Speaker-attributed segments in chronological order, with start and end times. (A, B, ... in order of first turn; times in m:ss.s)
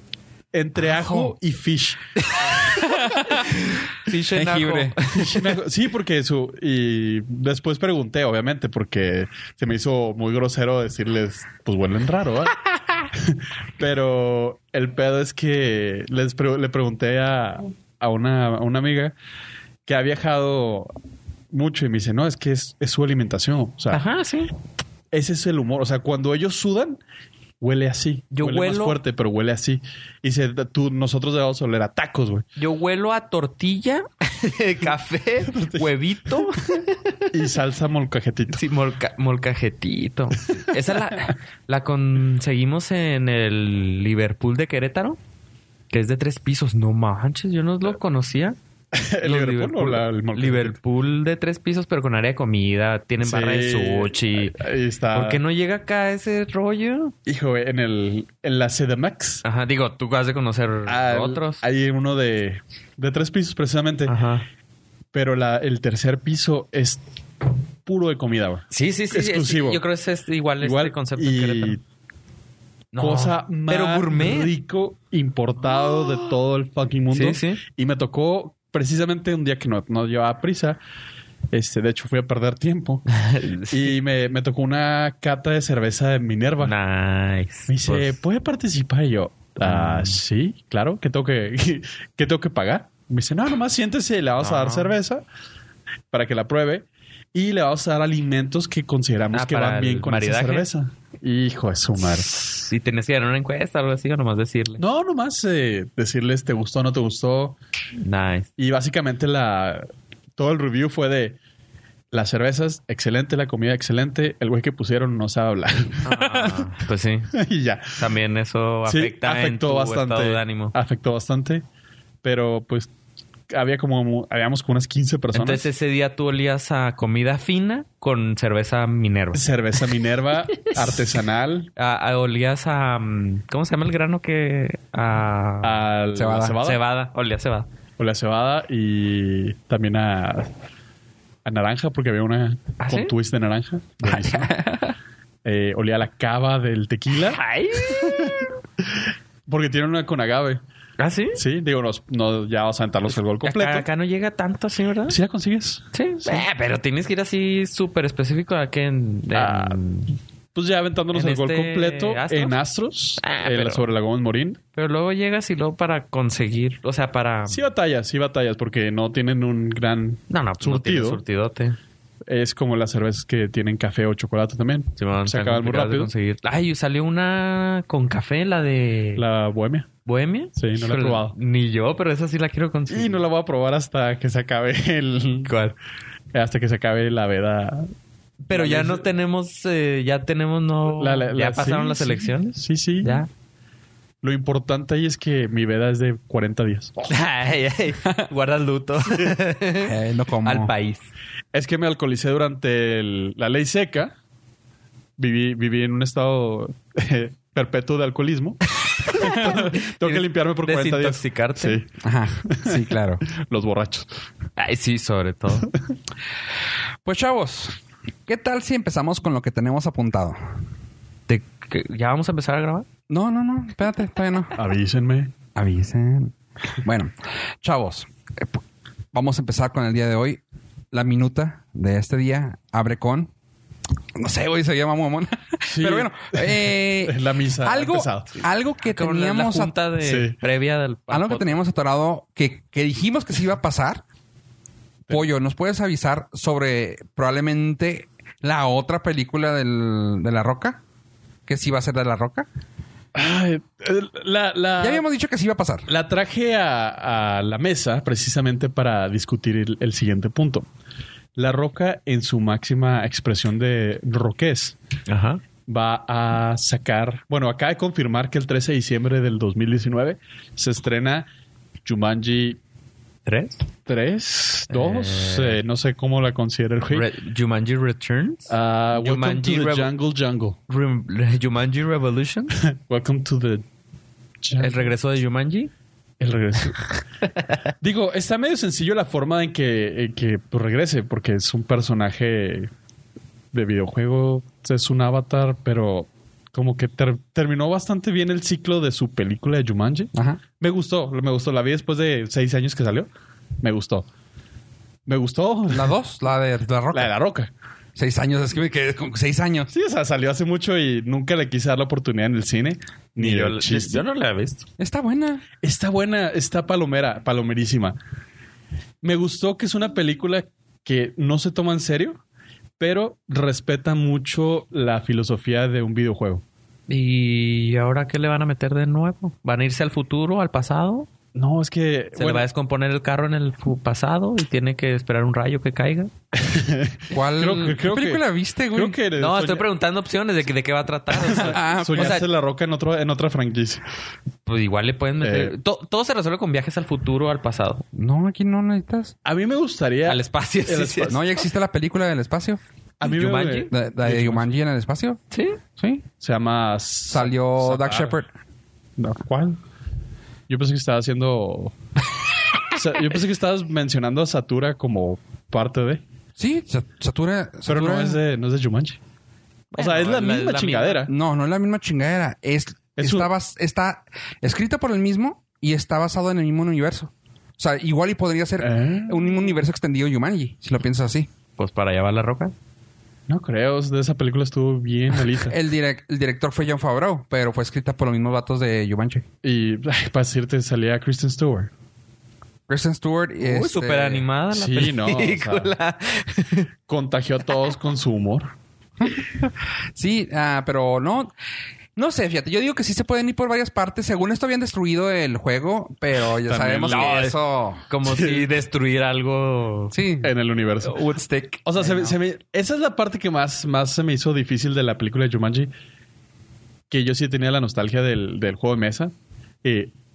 0:00.5-0:02.2 A
0:01.0-0:01.3 B
0:02.4-0:05.5 C
0:02.8-0:03.5 B
0:04.3-0:05.0 B
0:05.1-0:12.6 A
0:13.1-0:19.1 A
0:19.9-0:20.9 A
0:21.5-0:24.0 A
0:23.9-0:24.5 C
0:25.1-0:27.0 A
0:27.6-0:32.4 A
0:28.3-0:29.0 C
0:32.6-0:37.3 C
0:35.5-0:36.4 A
0:37.3-0:38.6 A
0:38.5-0:45.2 C
0:45.9-0:48.6 C
0:48.9-0:50.8 A
0:49.2-0:54.6 C
0:53.2-0:55.4 A
0:55.1-0:57.1 C
0:57.3-0:59.4 A
0:59.4-1:01.6 C
1:00.9-1:04.1 A
1:04.1-1:04.4 C
1:05.1-1:07.0 A
1:07.9-1:09.8 A
1:08.7-1:11.8 C
1:10.6-1:11.8 A
1:12.9-1:14.5 C
1:13.0-1:20.8 A
1:17.1-1:17.6 C
1:21.5-1:23.0 A
1:23.1-1:23.9 C
1:23.7-1:26.8 A
1:26.6-1:28.2 C
1:27.7-1:35.2 A
1:29.6-1:30.2 C
1:34.4-1:34.9 C
1:36.1-1:42.3 A
1:39.3-1:40.7 C
1:42.0-1:44.8 C
1:44.8-1:47.6 A
1:48.0-1:48.5 C
1:48.6-1:51.4 A
1:52.1-1:56.7 A
1:56.0-1:57.3 C
1:57.3-1:58.0 A
1:58.0-2:00.8 C
1:58.8-2:01.6 A
2:02.2-2:02.9 A
2:03.5-2:05.7 A
2:05.3-2:09.4 C
2:09.3-2:11.7 A
2:10.6-2:11.0 C
2:11.8-2:15.8 C
2:15.6-2:16.8 A
2:16.1-2:16.6 B
2:16.6-2:17.7 C
2:18.0-2:20.5 A
2:21.4-2:24.5 A
2:22.8-2:23.1 C
2:24.4-2:24.9 C
2:25.4-2:28.5 A
2:27.2-2:28.6 C
2:29.5-2:30.6 A
2:31.0-2:31.4 C
2:31.3-2:33.9 A
2:33.4-2:35.2 C
2:35.1-2:36.4 A
2:35.9-2:40.2 C
2:39.3-2:39.8 A
2:40.5-2:44.6 A
2:41.1-2:42.6 C
2:43.2-2:43.8 C
2:44.8-2:47.7 C
2:47.5-2:51.2 A
2:50.3-2:51.8 C
2:52.3-2:56.1 A
2:55.0-2:59.2 C
2:59.2-2:59.9 A
3:00.0-3:03.2 C
3:00.6-3:01.4 A
3:02.9-3:05.5 A
3:05.4-3:05.8 C
3:06.3-3:07.9 A
3:08.4-3:13.3 C
3:08.5-3:09.1 A
3:11.0-3:13.2 A
3:14.2-3:17.0 A
3:17.0-3:21.1 C
3:19.8-3:20.7 B
3:21.5-3:24.1 A
3:25.2-3:31.9 A
3:29.0-3:31.8 C
3:32.0-3:33.2 B
3:32.4-3:34.1 A
3:34.6-3:35.7 C
3:37.0-3:40.4 B
3:41.3-3:42.9 C
3:43.1-3:44.6 B
3:44.6-3:45.3 A
3:45.6-3:48.6 B
3:49.1-3:50.4 B
3:50.9-3:53.3 B
3:54.2-3:59.7 B
3:55.7-3:58.4 A
3:58.8-4:01.6 C
4:00.0-4:00.4 A
4:01.1-4:04.0 B
4:05.1-4:10.8 B
4:11.5-4:12.5 B
4:13.1-4:15.0 A
4:14.8-4:15.9 B
4:15.9-4:20.6 A
4:21.4-4:24.8 A
4:25.1-4:25.4 C
4:25.7-4:31.3 A
4:31.8-4:32.6 A
4:33.3-4:33.6 C
4:33.9-4:37.1 A
4:34.7-4:35.6 C
4:36.9-4:39.9 C
4:38.5-4:40.6 A
4:40.7-4:42.6 C
4:42.6-4:43.6 A
4:44.4-4:44.9 A
4:44.6-4:45.7 C
4:46.2-4:46.9 A
4:47.8-4:52.7 A
4:53.5-5:03.1 A
5:00.1-5:00.4 B
5:03.6-5:04.1 A
5:05.1-5:05.9 A
5:05.7-5:07.1 B
5:06.9-5:07.5 A
5:08.0-5:09.7 B
5:09.7-5:14.0 A
5:13.2-5:14.7 C
5:14.8-5:15.4 B
5:15.6-5:18.0 A
5:19.0-5:22.2 A
5:22.8-5:26.4 A
5:26.9-5:31.1 C
5:31.4-5:32.5 A
5:32.2-5:36.1 C
5:36.4-5:39.7 A
5:37.1-5:39.0 B
5:39.2-5:42.3 C
5:41.2-5:43.8 A
5:41.3-5:42.2 B
5:44.5-5:47.8 C
5:45.2-5:45.6 A
5:47.9-5:49.1 B
5:49.2-5:51.2 A
5:50.1-5:51.2 C
5:51.1-5:52.6 B
5:53.0-5:54.5 A
5:53.0-5:53.7 C
5:53.7-5:55.2 B
5:55.3-5:55.6 C
5:55.8-5:56.1 B
5:56.2-5:58.2 A
5:57.1-5:58.3 B
5:59.0-5:59.6 A
6:00.5-6:01.8 A
6:02.7-6:06.0 A
6:06.4-6:08.2 B
6:07.7-6:09.0 A
6:09.7-6:11.1 C
6:09.8-6:11.1 A
6:11.1-6:21.3 B
6:13.0-6:13.3 A
6:18.6-6:19.6 A
6:21.6-6:22.5 C
6:23.3-6:25.6 A
6:25.5-6:29.3 B
6:29.4-6:31.7 A
6:32.7-6:34.2 B
6:33.4-6:36.7 C
6:34.5-6:35.8 A
6:36.9-6:38.5 A
6:39.0-6:41.3 B
6:42.0-6:47.8 B
6:46.4-6:47.3 A
6:46.8-6:47.4 C
6:47.9-6:50.0 C
6:48.0-6:48.5 A
6:49.9-6:52.2 B
6:50.2-6:51.0 A
6:51.7-6:55.7 A
6:56.9-6:59.1 A
6:59.6-6:59.9 A